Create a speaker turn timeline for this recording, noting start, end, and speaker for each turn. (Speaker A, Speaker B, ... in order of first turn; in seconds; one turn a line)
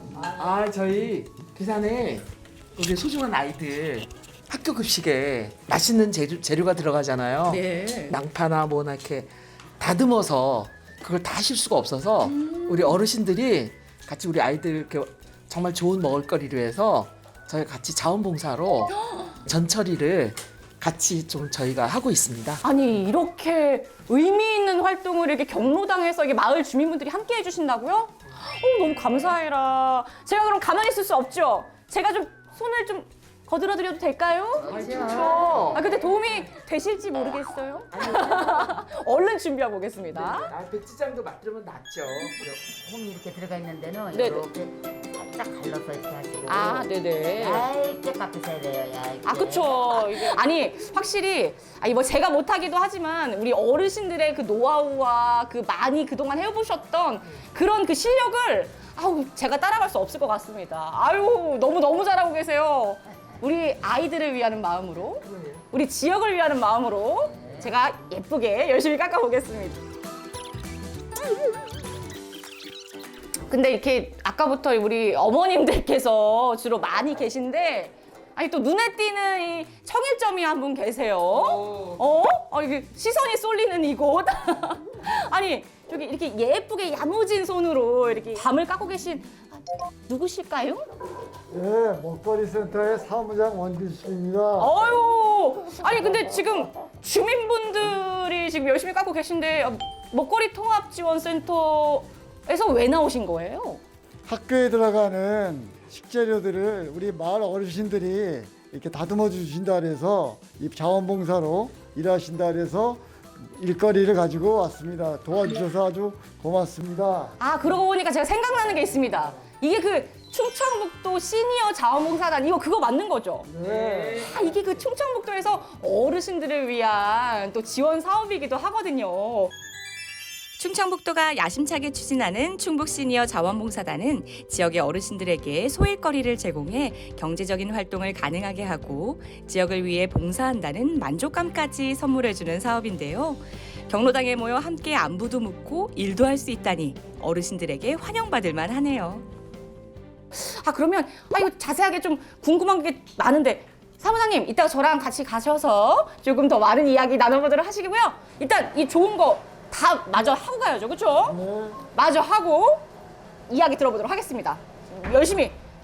Speaker A: 0.2-22.6
Speaker B: 7.5-8.1
Speaker B: 22.6-40.5
Speaker C: 34.7-35.8
Speaker A: 34.7-35.8
Speaker A: 37.9-38.7
Speaker A: 40.1-42.4
Speaker C: 42.4-50.3
Speaker B: 44.1-44.5
Speaker B: 46.5-47.7
Speaker B: 49.2-69.8
Speaker A: 65.3-65.6
Speaker B: 73.5-89.4
Speaker B: 90.0-90.8
Speaker D: 91.5-94.7
Speaker B: 94.6-103.8
Speaker D: 104.2-117.4
Speaker B: 117.4-129.5
Speaker D: 123.5-124.2
Speaker E: 130.6-149.2
Speaker B: 150.3-162.8
Speaker D: 161.2-161.8
Speaker B: 163.5-165.5